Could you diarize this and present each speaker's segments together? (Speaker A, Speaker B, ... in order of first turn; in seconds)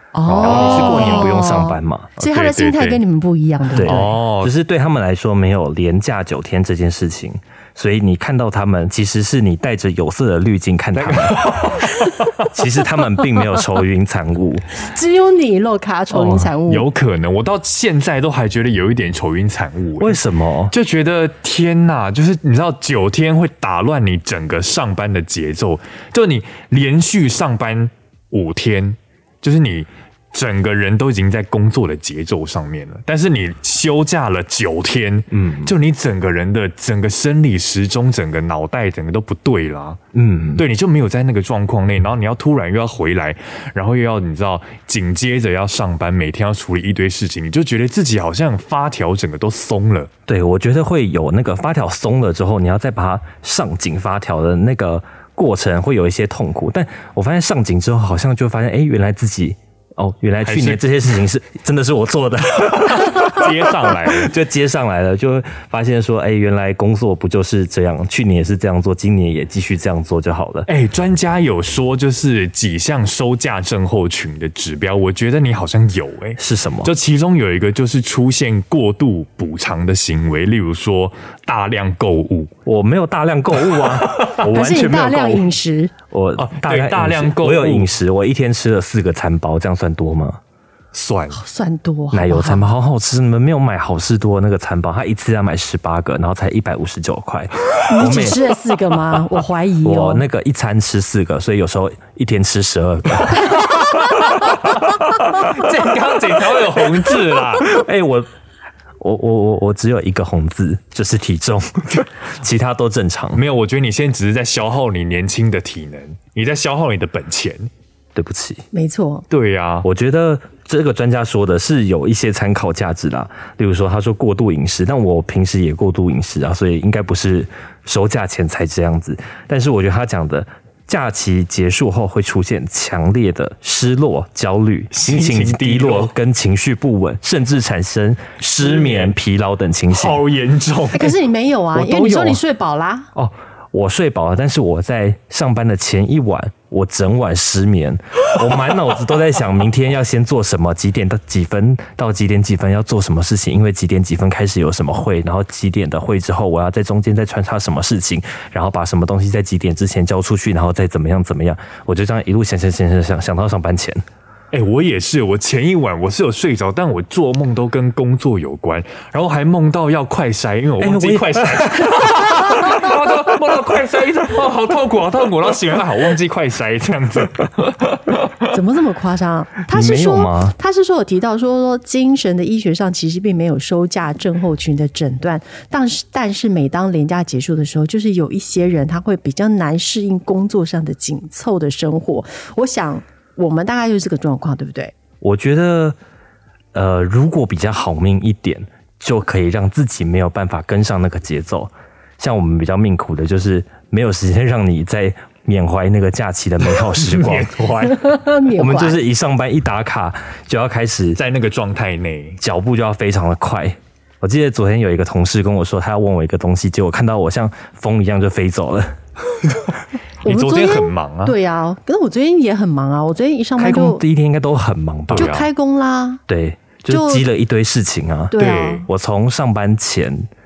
Speaker A: 0.1-4.2, 14.8-16.9, 84.5-85.9, 91.3-92.7, 97.9-100.2, 118.7-119.2, 140.9-143.1, 178.5-194.9, 207.9-209.0, 220.2-224.0, 225.1-226.2, 226.9-227.2, 228.3-228.8
Speaker B: 0.3-2.1, 3.8-11.7, 12.4-14.7, 16.1-16.5, 20.0-20.7, 35.3-35.8, 40.1-40.6, 50.3-70.7, 76.4-76.9, 82.7-85.5, 86.1-90.4, 92.1-98.4, 99.8-103.7, 107.7-108.3, 109.0-113.4, 118.1-118.6, 119.8-140.2, 141.7-142.4, 143.1-164.0, 170.8-172.6, 179.7-180.5, 195.2-196.0, 196.7-207.6, 208.6-211.2, 212.4-219.0, 223.6-225.4, 226.3-230.3
Speaker C: 0.3-1.3, 2.2-3.0, 3.7-4.5, 10.9-12.5, 16.6-40.0, 40.5-50.1, 60.4-61.0, 63.0-64.3, 70.7-82.5, 83.8-84.4, 86.4-87.9, 90.9-91.4, 103.8-104.6, 105.2-107.8, 113.3-117.7, 119.3-119.8, 134.9-136.1, 138.6-139.1, 139.9-141.2, 164.5-178.5, 206.8-208.1, 211.2-212.4, 220.2-221.3, 225.1-225.5, 228.4-228.9